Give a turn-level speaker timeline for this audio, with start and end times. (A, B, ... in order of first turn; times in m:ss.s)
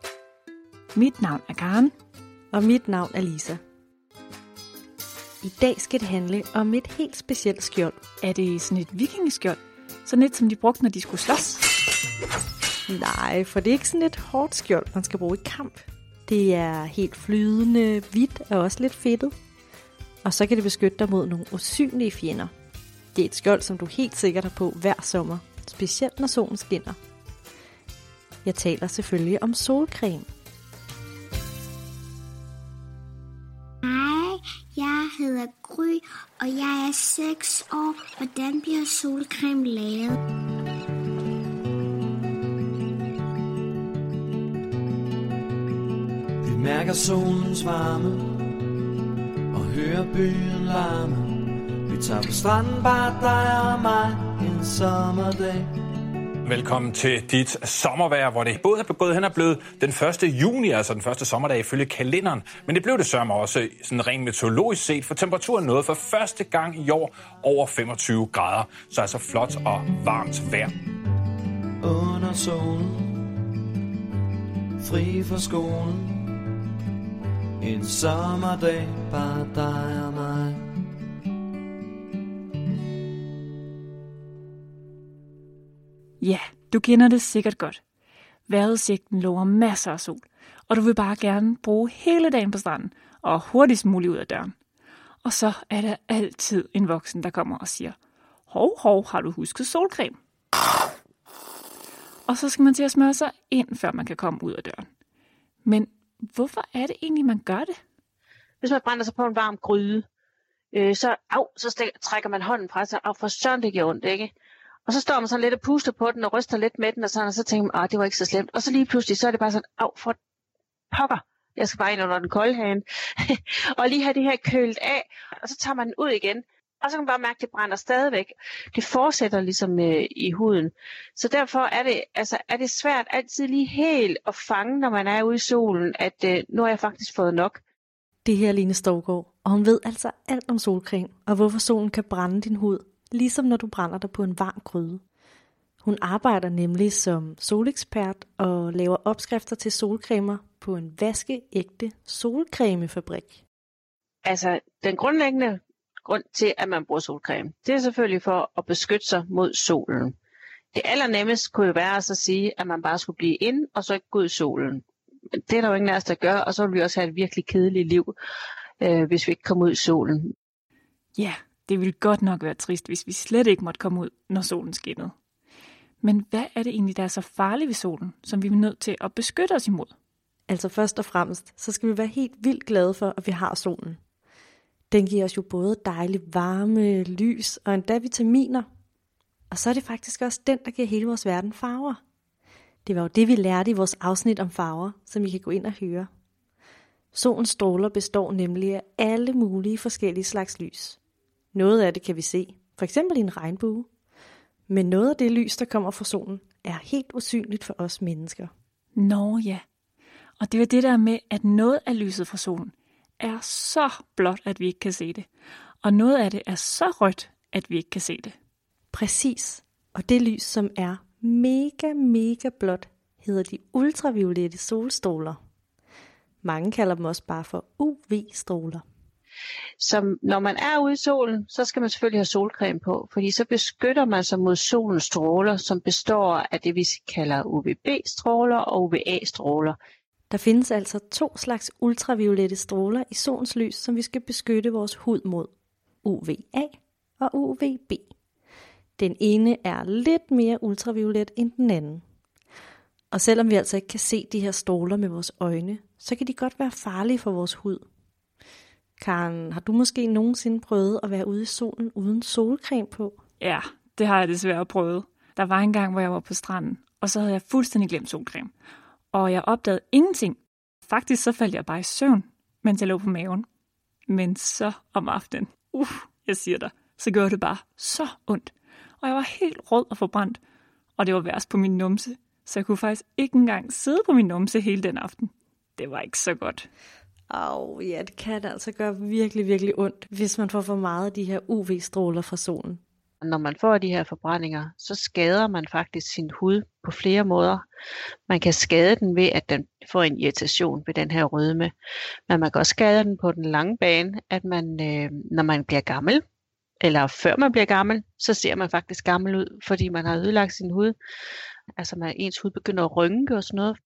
0:00.9-0:01.9 A
0:02.5-0:03.6 B
0:05.4-0:08.0 B
0:08.2-0:11.6 A
0:12.9-0:19.3 B
0:20.2-0:22.5 B
0:23.1-0:27.0 B
0:28.4-0:30.3 B
0:33.8-0:40.1 C
0:46.4-0:48.5 D
0:49.5-0:55.7 D
0:56.4-1:10.7 E
1:11.8-1:13.3 D
1:14.8-1:16.4 D
1:17.6-1:20.6 D
1:26.2-1:27.8 A
1:28.5-1:34.5 A
1:35.2-1:38.0 A
1:38.5-1:40.2 A
1:42.3-1:44.9 A
1:45.6-1:47.8 A
1:48.6-1:50.0 F
1:50.7-1:54.3 F
1:54.9-2:00.2 F
2:00.9-2:17.6 F
2:18.2-2:25.0 B
2:25.8-2:33.4 B
2:34.2-2:40.1 F
2:40.7-2:44.8 F
2:45.4-2:48.1 F
2:48.8-2:50.3 F
2:51.2-2:55.1 A
2:56.0-2:59.9 A
3:00.5-3:04.0 B
3:04.9-3:08.6 B
3:09.5-3:12.0 B
3:12.8-3:16.1 B
3:17.1-3:21.0 B
3:21.5-3:23.9 B
3:24.7-3:28.5 B
3:29.0-3:29.6 A
3:30.4-3:35.3 A
3:35.8-3:38.3 A
3:38.9-3:45.4 B
3:46.4-3:48.8 B
3:49.8-3:59.7 F
4:00.3-4:05.5 B
4:06.0-4:08.1 B
4:09.0-4:12.0 B
4:13.1-4:17.8 B
4:19.0-4:23.2 B
4:23.4-4:28.5 A
4:29.1-4:33.4 A
4:34.1-4:40.4 A
4:41.0-4:46.7 A
4:47.3-4:52.8 B
4:53.2-4:57.6 F
4:58.3-5:01.7 F
5:02.3-5:06.2 F
5:06.8-5:10.9 F
5:11.8-5:13.8 F